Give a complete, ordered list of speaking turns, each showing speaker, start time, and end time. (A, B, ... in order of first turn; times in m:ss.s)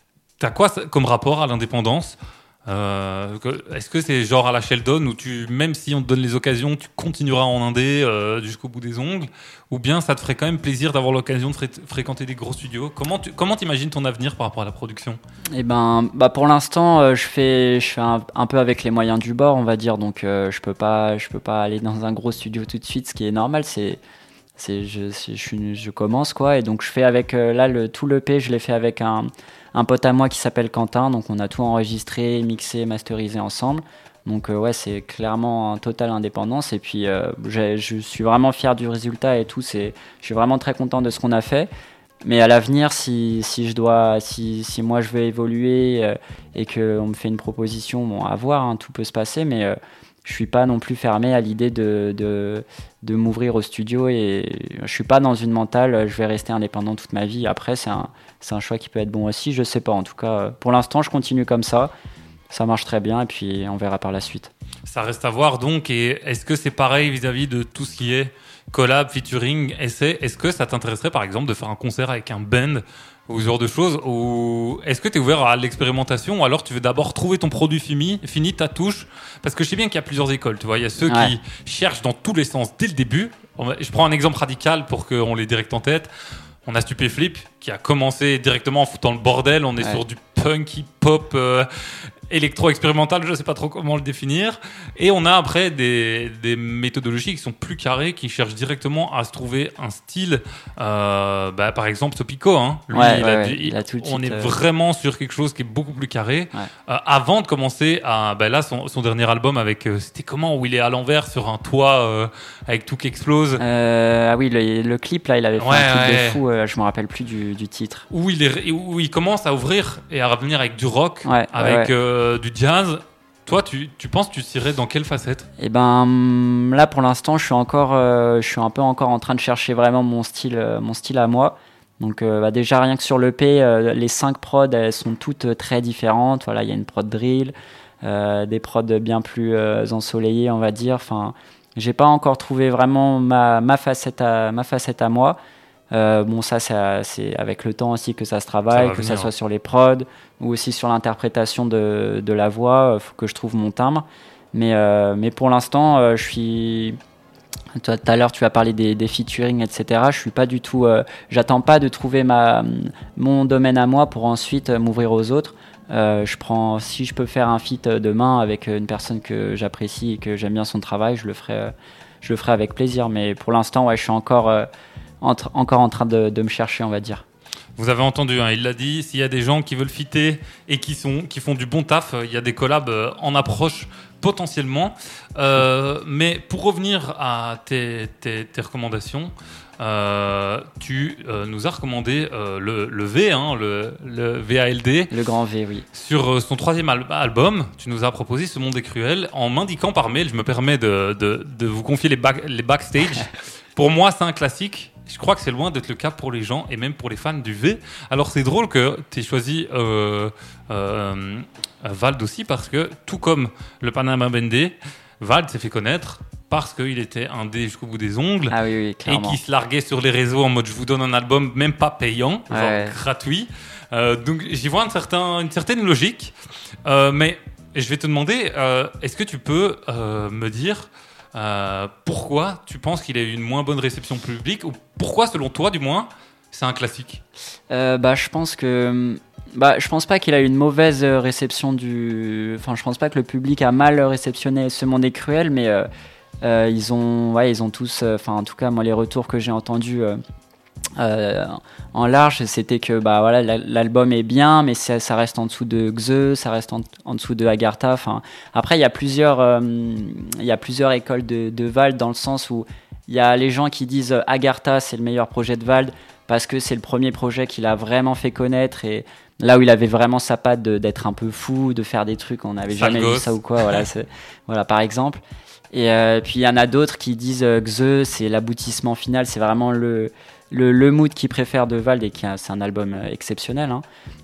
0:00.4-0:15.2 A
0:15.5-0:24.0 B
0:24.6-0:41.7 B
0:42.2-1:01.9 B
1:02.5-1:04.5 B
1:04.9-1:26.1 A
1:21.1-1:21.3 B
1:26.6-1:53.6 A
1:42.9-1:44.5 B
1:53.6-1:58.1 B
1:55.6-1:56.4 A
1:58.1-2:05.5 A
2:01.2-2:01.9 B
2:05.6-2:25.4 B
2:25.9-2:37.0 B
2:28.7-2:29.3 A
2:37.8-2:54.7 B
2:55.2-2:57.2 B
2:57.8-3:15.1 A
3:15.1-3:15.8 B
3:15.9-3:46.3 A
3:38.5-3:39.4 B
3:42.5-3:43.0 B
3:46.8-3:57.2 A
3:57.7-4:05.9 B
4:06.4-4:10.2 B
4:11.0-4:43.8 B
4:32.7-4:33.8 A